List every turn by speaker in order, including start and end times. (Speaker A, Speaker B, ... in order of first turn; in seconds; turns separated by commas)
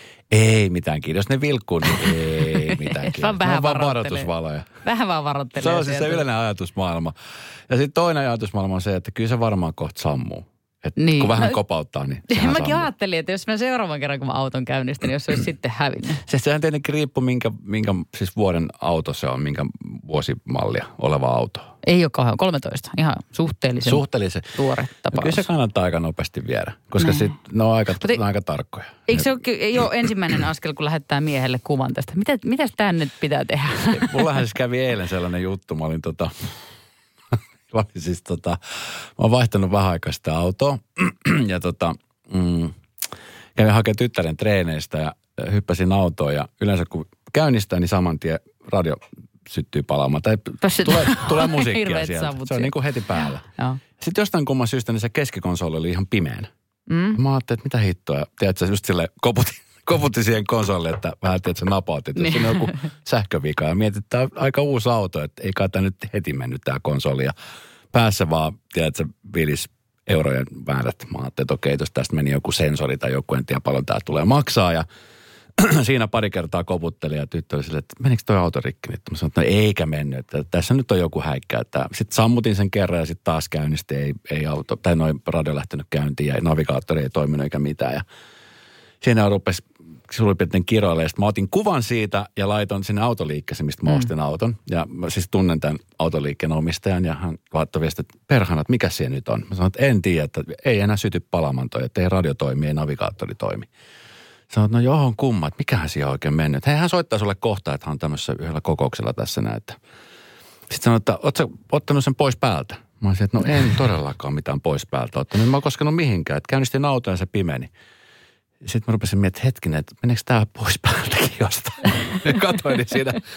Speaker A: 0.3-4.7, Speaker B: 1.9-4.3, Speaker B: 4.8-6.2, Speaker A: 5.5-7.1, Speaker A: 7.7-12.9, Speaker B: 11.0-11.6, Speaker B: 12.3-16.2, Speaker A: 16.2-21.7, Speaker B: 21.8-25.4, Speaker A: 23.8-24.5, Speaker A: 25.1-29.3, Speaker B: 27.0-27.3, Speaker B: 29.1-34.4, Speaker A: 33.9-36.6, Speaker A: 37.3-42.8, Speaker A: 43.5-53.5, Speaker B: 50.6-52.7, Speaker B: 53.5-53.8, Speaker A: 54.0-56.5, Speaker B: 56.9-57.2, Speaker A: 57.1-67.3, Speaker B: 62.1-62.9, Speaker A: 67.9-74.9, Speaker A: 75.6-88.0, Speaker A: 89.0-103.7, Speaker A: 104.5-109.8, Speaker A: 110.7-117.7, Speaker A: 118.6-123.2